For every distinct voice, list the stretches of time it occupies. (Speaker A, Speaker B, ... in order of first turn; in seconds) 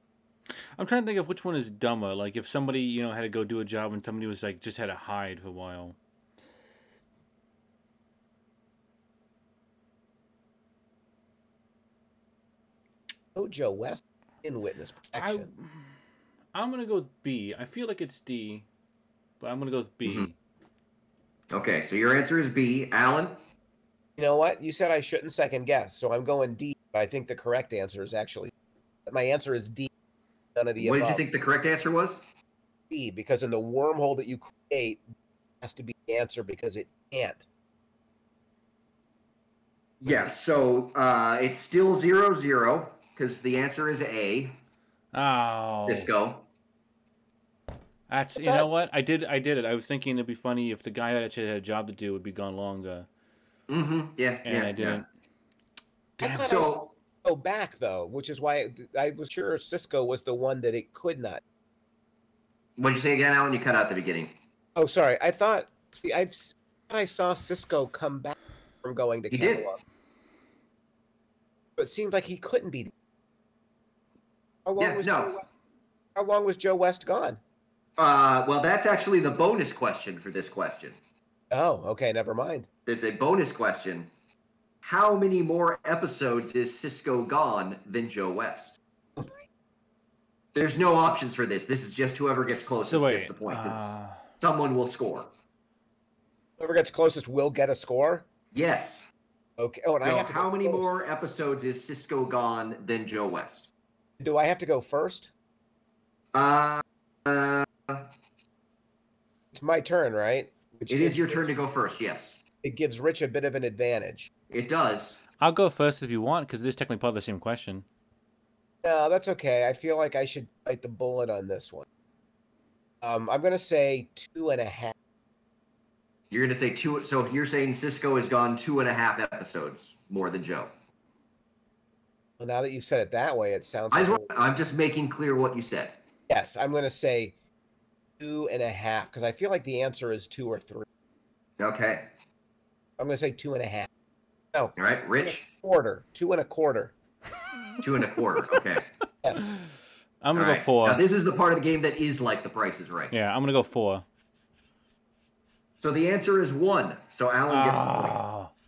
Speaker A: 0.8-6.0, 15.2-15.9, 16.5-18.6, 19.4-20.3, 45.1-46.1, 48.1-53.1, 54.4-55.0, 56.2-56.5, 92.8-94.2, 115.4-117.8, 150.2-151.0, 153.1-154.0, 157.5-158.5
Speaker B: 13.3-15.5, 24.2-28.5, 29.1-29.9, 30.5-31.2, 32.9-35.0, 35.6-37.4, 40.0-40.3, 48.4-48.7, 56.2-61.4, 64.8-69.8, 71.8-72.9, 74.6-75.5, 76.2-77.4, 81.5-82.7, 96.6-98.2, 99.6-100.9, 104.2-105.3, 109.5-111.5, 112.6-114.3, 118.8-121.8, 123.0-124.9, 132.4-134.3, 136.3-137.3, 138.2-140.8, 143.0-143.9, 144.5-146.9, 149.2-149.6
Speaker C: 21.5-23.4, 30.8-32.2, 40.0-44.6, 45.9-46.5, 53.7-55.0, 56.3-56.9, 62.8-64.3, 69.3-69.7, 74.8-75.3, 78.0-81.0, 82.8-84.1, 84.8-88.8, 90.5-95.3, 98.5-99.0, 100.0-103.7, 106.3-108.1, 110.9-112.4, 114.5-115.2, 126.3-130.7, 133.9-136.0, 141.6-142.1, 144.8-145.4, 147.8-148.9, 150.3-153.2, 155.8-158.2